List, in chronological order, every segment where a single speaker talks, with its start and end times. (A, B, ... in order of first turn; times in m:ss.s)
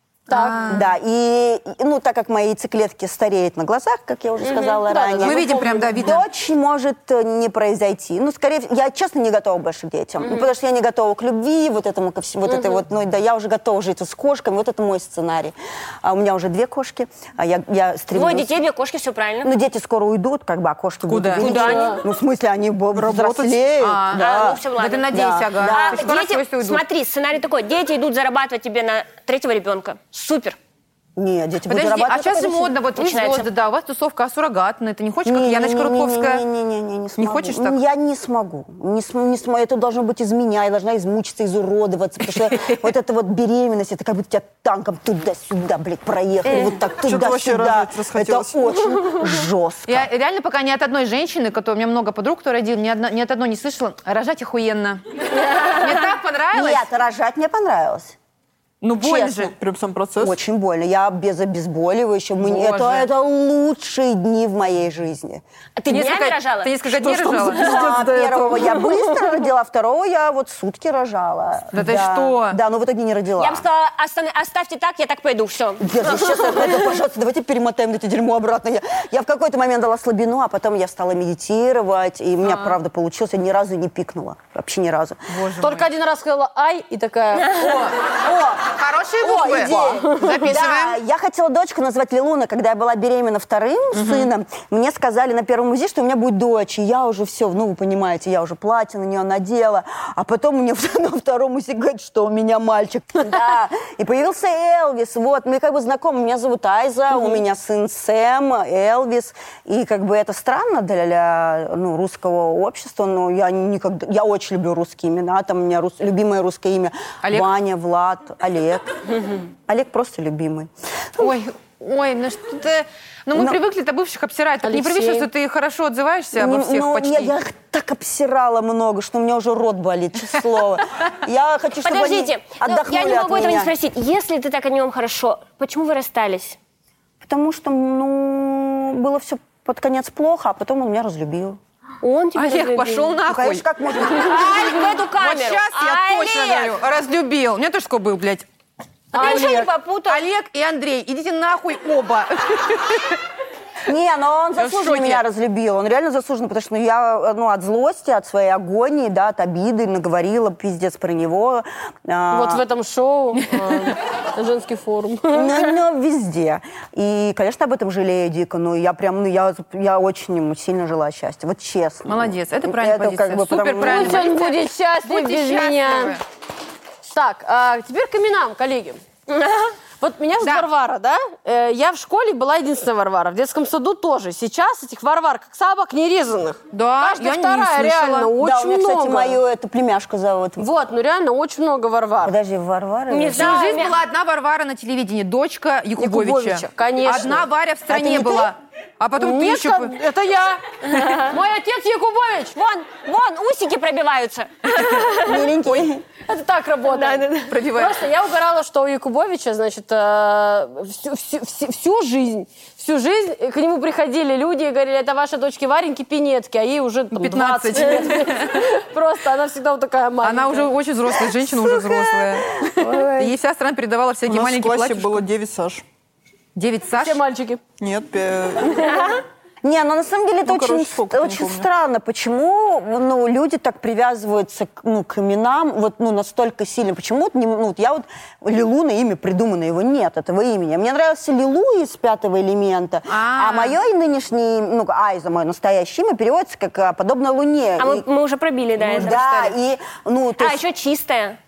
0:00.3-0:00.7 A
0:00.3-0:00.9 B
0:00.6-0:18.5 C
0:04.4-0:04.8 D
0:04.8-0:06.1 A
0:05.2-0:06.2 B
0:10.2-0:10.5 D
0:12.5-0:12.8 D
0:18.1-0:19.5 D
0:19.4-0:26.1 C
0:21.1-0:21.8 B
0:21.4-0:22.0 D
0:21.6-0:22.0 A
0:22.9-0:23.7 E
0:23.8-0:26.8 B
0:24.1-0:30.6 D
0:31.2-0:32.7 C
0:31.7-0:36.4 B
0:32.2-0:33.5 D
0:35.2-0:50.1 C
0:37.2-0:37.8 B
0:46.9-0:48.7 E
0:49.9-0:56.9 B
0:56.5-0:58.2 C
0:58.8-0:59.5 B
0:59.0-0:59.5 C
0:59.5-1:00.4 E
1:00.2-1:05.4 C
1:02.4-1:03.1 B
1:05.8-1:06.8 D
1:05.9-1:07.8 B
1:06.8-1:08.9 E
1:07.5-1:13.7 C
1:11.7-1:12.6 B
1:13.4-1:16.6 D
1:15.8-1:25.3 C
1:22.4-1:22.8 B
1:25.3-1:25.9 B
1:25.6-1:27.6 A
1:27.4-1:31.0 B
1:28.2-1:28.6 C
1:29.2-2:01.3 C
1:33.9-1:34.3 B
1:57.2-1:57.5 B
2:01.2-2:07.4 B
2:03.3-2:03.6 C
2:04.6-2:05.3 A
2:06.4-2:13.7 C
2:11.8-2:16.6 D
2:17.2-2:21.6 C
2:22.0-2:23.2 D
2:22.4-2:23.7 B
2:23.2-2:24.8 C
2:24.1-2:26.8 D
2:24.2-2:28.5 B
2:29.1-2:29.6 A
2:29.1-2:30.3 D
2:29.2-2:29.6 B
2:29.2-2:29.7 C
2:30.1-2:33.2 B
2:33.9-2:42.6 C
2:34.6-2:35.2 B
2:42.3-2:45.7 A
2:45.3-2:54.4 C
2:52.1-2:56.2 B
2:53.8-2:56.2 A
2:57.1-2:59.0 A
3:00.0-3:09.4 A
3:00.4-3:00.7 B
3:06.7-3:08.3 B
3:08.3-3:10.7 C
3:10.6-3:12.4 A
3:12.2-3:13.7 C
3:13.1-3:14.0 D
3:13.3-3:19.9 B
3:16.0-3:17.5 A
3:17.9-3:18.5 C
3:19.2-3:22.6 A
3:20.9-3:21.4 D
3:22.6-3:25.5 D
3:25.0-3:26.0 C
3:26.2-3:40.7 A
3:26.9-3:27.6 D
3:27.5-3:28.0 B
3:37.1-3:38.7 B
3:40.2-3:42.6 B
3:41.4-3:43.3 C
3:43.1-3:45.2 B
3:44.3-3:45.8 E
3:46.6-3:47.2 B
3:47.0-3:47.6 A
3:47.8-3:49.0 E
3:49.6-4:08.0 C
3:50.4-3:51.7 E
4:03.1-4:03.8 B
4:07.8-4:09.2 D
4:08.8-4:09.6 B
4:08.9-4:10.6 C
4:10.4-4:11.4 D